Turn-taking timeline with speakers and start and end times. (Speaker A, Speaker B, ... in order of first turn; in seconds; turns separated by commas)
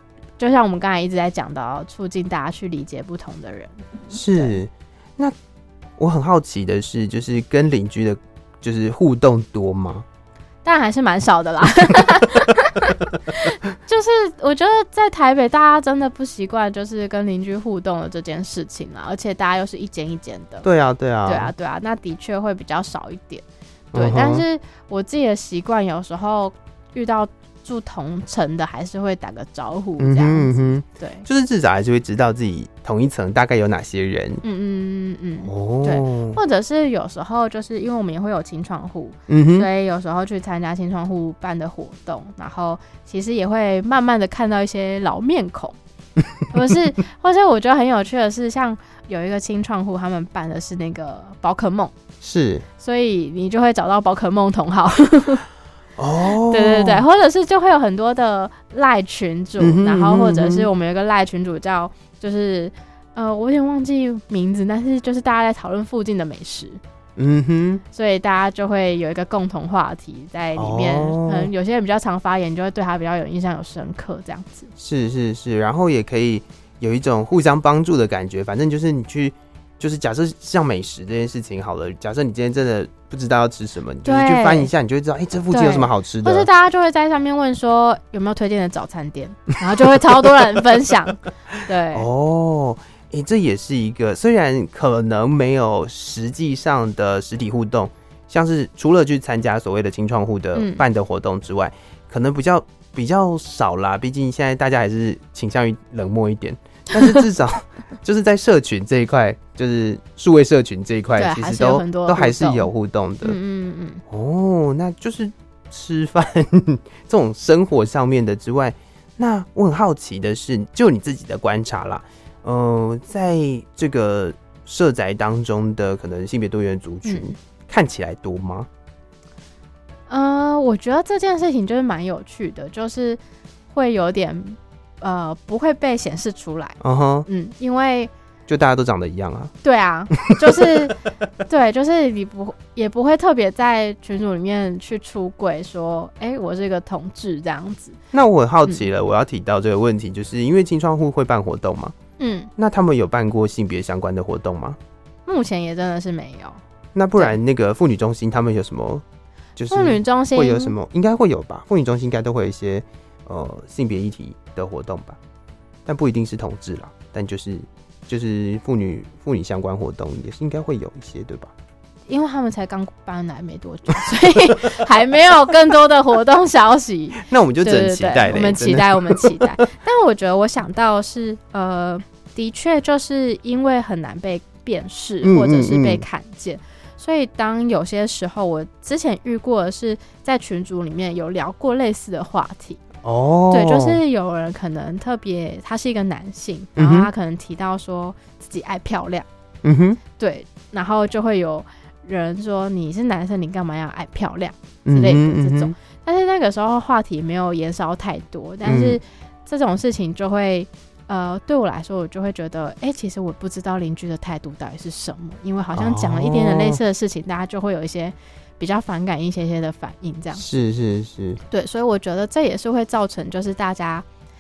Speaker A: 0.4-4.6, Speaker B: 4.1-5.3, Speaker B: 6.0-10.1, Speaker A: 10.7-20.7, Speaker B: 20.6-21.5, Speaker A: 21.3-31.3, Speaker B: 23.9-24.4, Speaker B: 30.0-34.4, Speaker A: 34.4-45.8, Speaker B: 35.5-36.4, Speaker B: 39.3-39.7, Speaker A: 46.5-51.9, Speaker B: 52.2-52.6, Speaker A: 52.8-55.5, Speaker B: 56.0-57.0, Speaker A: 56.2-66.8, Speaker B: 59.6-60.7, Speaker B: 67.2-67.8, Speaker A: 67.9-74.7, Speaker B: 70.6-71.5, Speaker B: 74.8-86.5, Speaker A: 84.0-84.7, Speaker A: 85.5-92.1, Speaker B: 91.9-113.4, Speaker A: 100.5-100.8, Speaker A: 107.0-107.2, Speaker A: 111.2-112.7, Speaker A: 113.2-114.0, Speaker B: 114.1-128.7, Speaker A: 127.0-127.3, Speaker A: 130.1-133.2, Speaker A: 133.7-138.1, Speaker B: 136.8-137.3, Speaker B: 138.5-139.5, Speaker A: 139.6-148.0, Speaker B: 140.2-140.9, Speaker B: 148.1-151.9, Speaker A: 152.2-152.5, Speaker B: 152.6-154.8, Speaker A: 155.3-156.6, Speaker B: 156.9-159.0, Speaker B: 159.6-165.2, Speaker A: 159.7-160.7, Speaker B: 165.9-171.5, Speaker A: 172.1-192.8, Speaker B: 177.2-179.5, Speaker B: 185.2-186.0, Speaker B: 193.0-194.0, Speaker A: 193.5-199.3, Speaker B: 196.8-197.1, Speaker B: 199.6-200.0, Speaker A: 200.2-220.4, Speaker B: 204.8-205.7, Speaker B: 208.7-209.0, Speaker B: 215.7-216.8, Speaker B: 220.4-221.4, Speaker A: 221.5-224.1